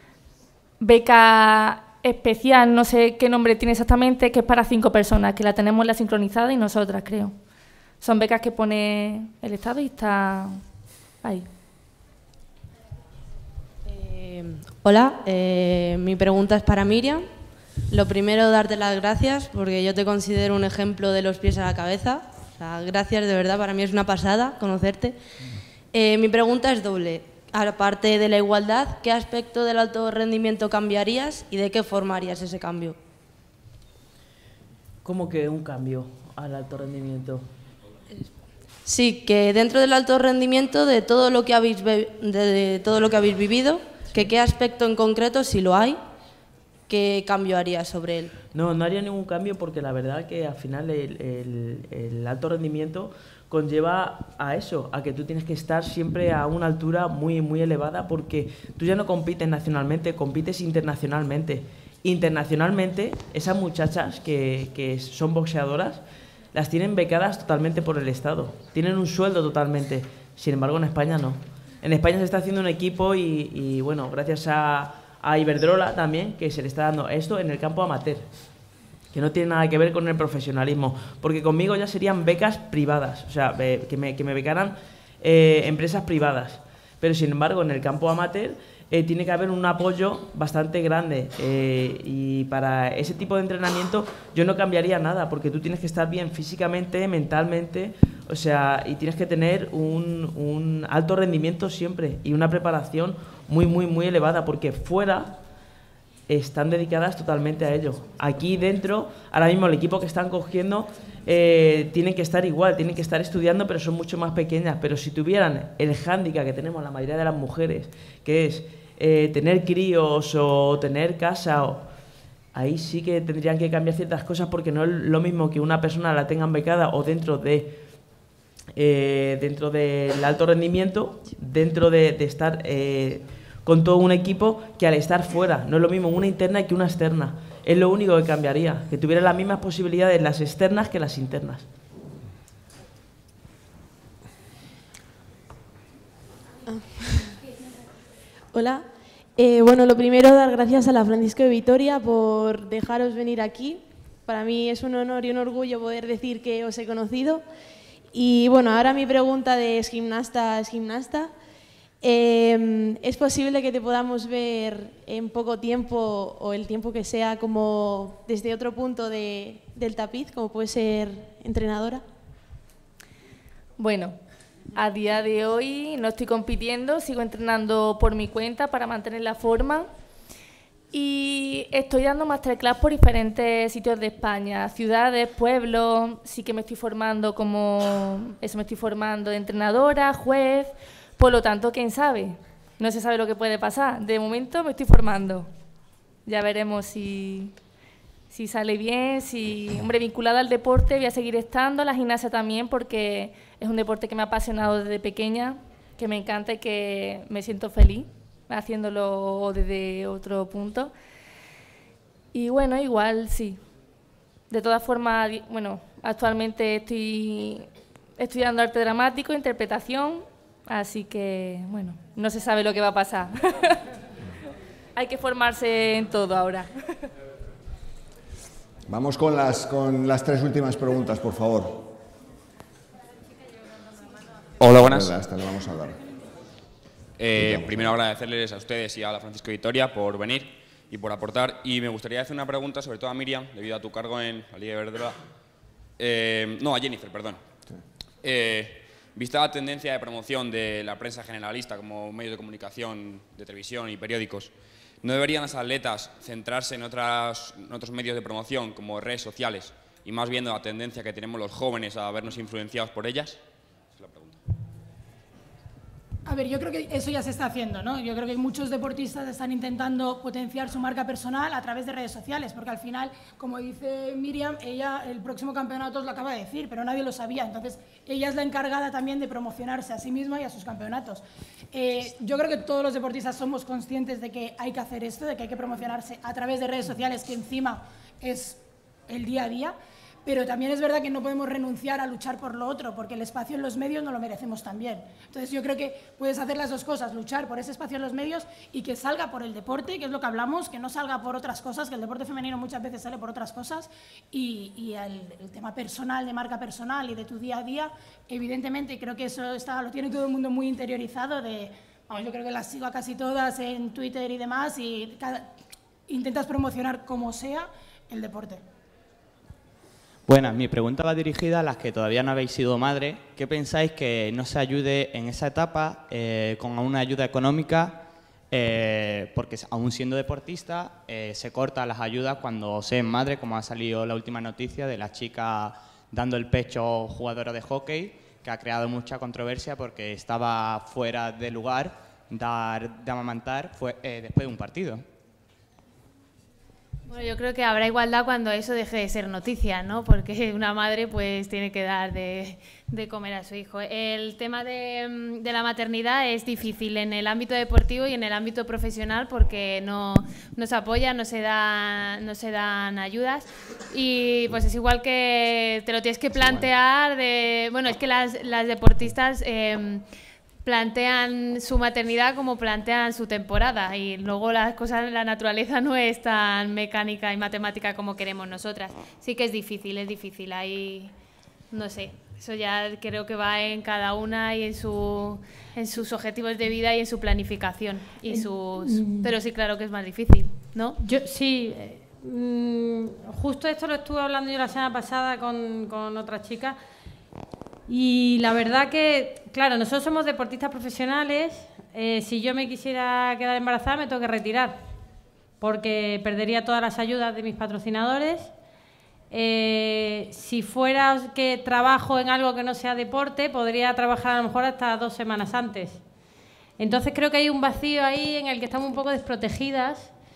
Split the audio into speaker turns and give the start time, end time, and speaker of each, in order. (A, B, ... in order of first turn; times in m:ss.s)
0:00.8-0:07.3 A
0:08.0-0:10.6 A
0:13.8-0:17.3 B
0:17.9-0:25.2 B
0:25.9-0:33.0 B
0:35.0-0:37.5 C
0:38.8-0:46.0 B
0:46.9-0:48.3 B
0:48.5-1:18.3 C
1:19.1-1:45.4 C
1:46.3-2:01.8 C
2:02.5-2:07.8 C
2:08.7-2:21.6 C
2:26.6-2:27.3 D
2:28.5-2:28.9 D
2:29.4-2:37.4 D
2:38.1-2:41.3 D
2:42.0-2:52.0 D
2:53.8-2:54.2 A
2:54.7-2:59.9 A
3:00.9-3:15.5 A
3:16.3-3:17.5 A
3:18.3-3:30.9 A
3:32.3-3:33.6 A
3:34.5-3:43.8 A
3:45.0-3:46.8 A
3:48.9-3:52.0 E
3:54.6-3:55.1 F
3:54.6-3:56.0 E
3:57.2-4:05.2 F
3:57.3-3:58.0 E
4:06.0-4:07.4 F
4:08.2-4:23.4 F
4:24.0-4:24.4 F
4:26.2-5:15.5 G
5:16.1-5:18.6 G
5:20.3-5:45.0 H
5:47.1-6:10.0 I
6:06.3-6:06.7 E
6:10.6-6:21.1 I
6:21.7-6:31.0 I
6:28.9-6:29.2 J
6:31.0-6:36.8 J
6:37.9-6:44.8 J
6:45.6-6:48.5 J
6:49.3-6:56.0 J
6:56.8-7:00.1 J